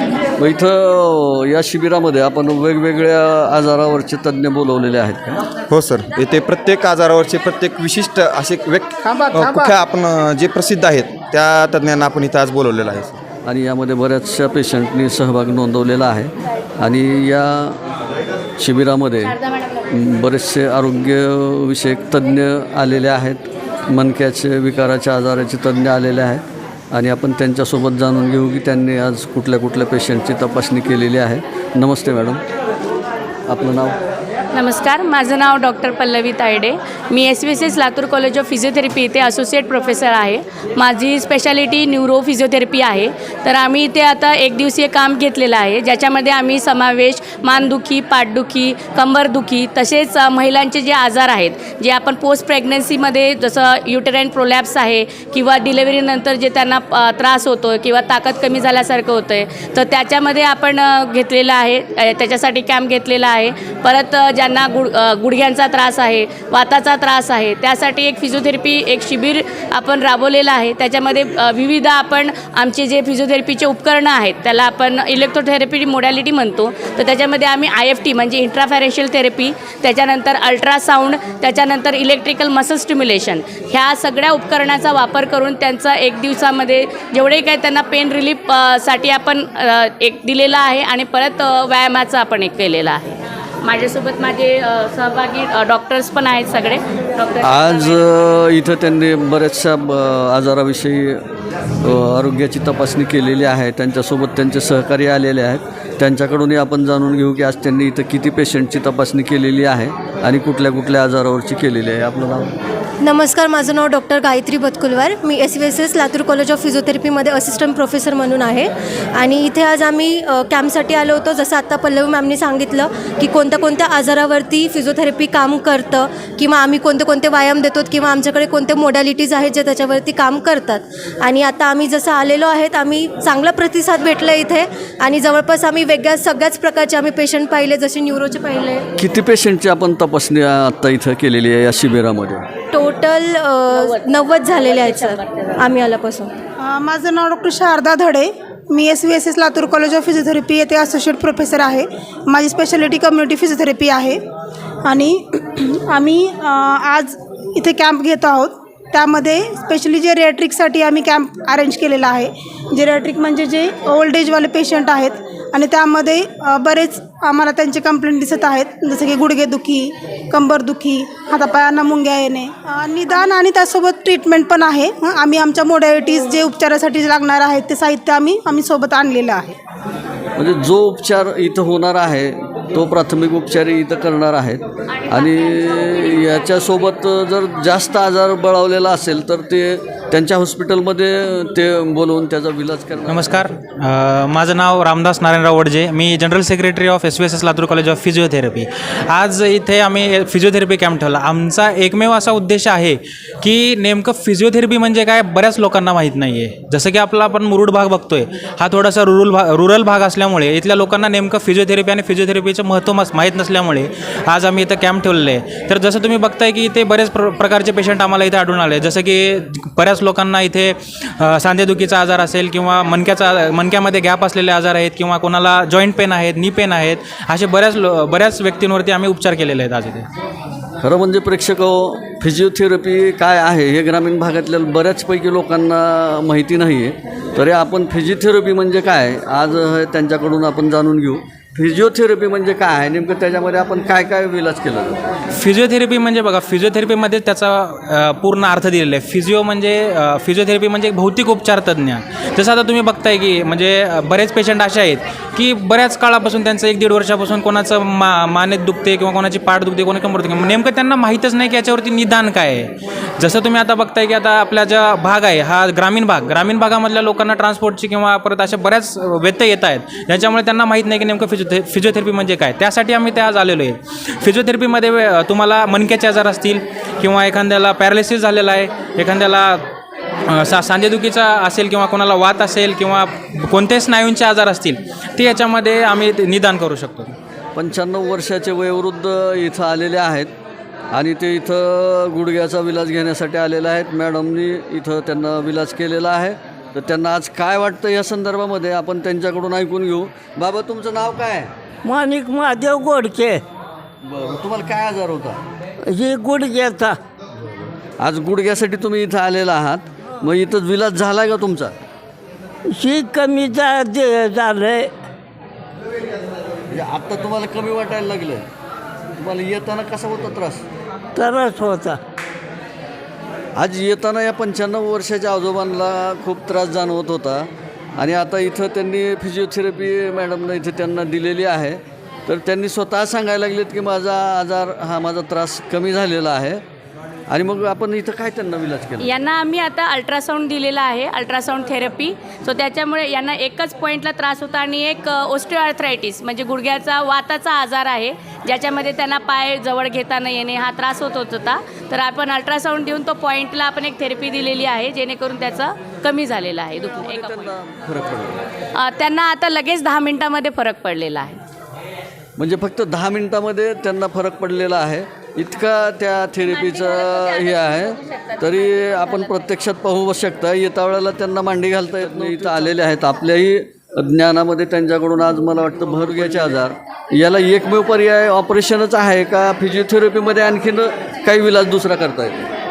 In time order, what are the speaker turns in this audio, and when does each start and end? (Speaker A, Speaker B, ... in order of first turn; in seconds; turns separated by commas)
Speaker A: 0.4-5.4, Speaker B: 5.7-13.2, Speaker C: 9.0-9.7, Speaker A: 13.4-17.8, Speaker A: 18.6-19.4, Speaker A: 19.9-32.4, Speaker A: 33.5-34.0, Speaker D: 34.5-98.1, Speaker A: 97.4-101.2, Speaker A: 101.8-112.5, Speaker E: 113.0-138.8, Speaker A: 139.0-142.5, Speaker E: 142.7-146.3, Speaker D: 143.7-145.6, Speaker C: 146.6-154.2, Speaker C: 154.9-179.6, Speaker A: 180.4-193.5, Speaker F: 193.1-230.1, Speaker A: 230.8-245.1, Speaker F: 245.4-279.6, Speaker F: 280.3-287.1, Speaker A: 287.6-290.3, Speaker A: 290.9-301.5, Speaker G: 301.9-303.4, Speaker A: 304.0-305.4, Speaker G: 305.9-307.0, Speaker A: 308.0-311.8, Speaker G: 312.7-314.9, Speaker A: 316.7-318.5, Speaker A: 319.2-320.6, Speaker G: 321.2-322.0, Speaker A: 323.6-336.6, Speaker A: 337.3-339.1, Speaker D: 339.0-357.5, Speaker A: 357.0-358.4, Speaker D: 358.8-361.4, Speaker A: 362.4-382.5, Speaker D: 366.8-369.0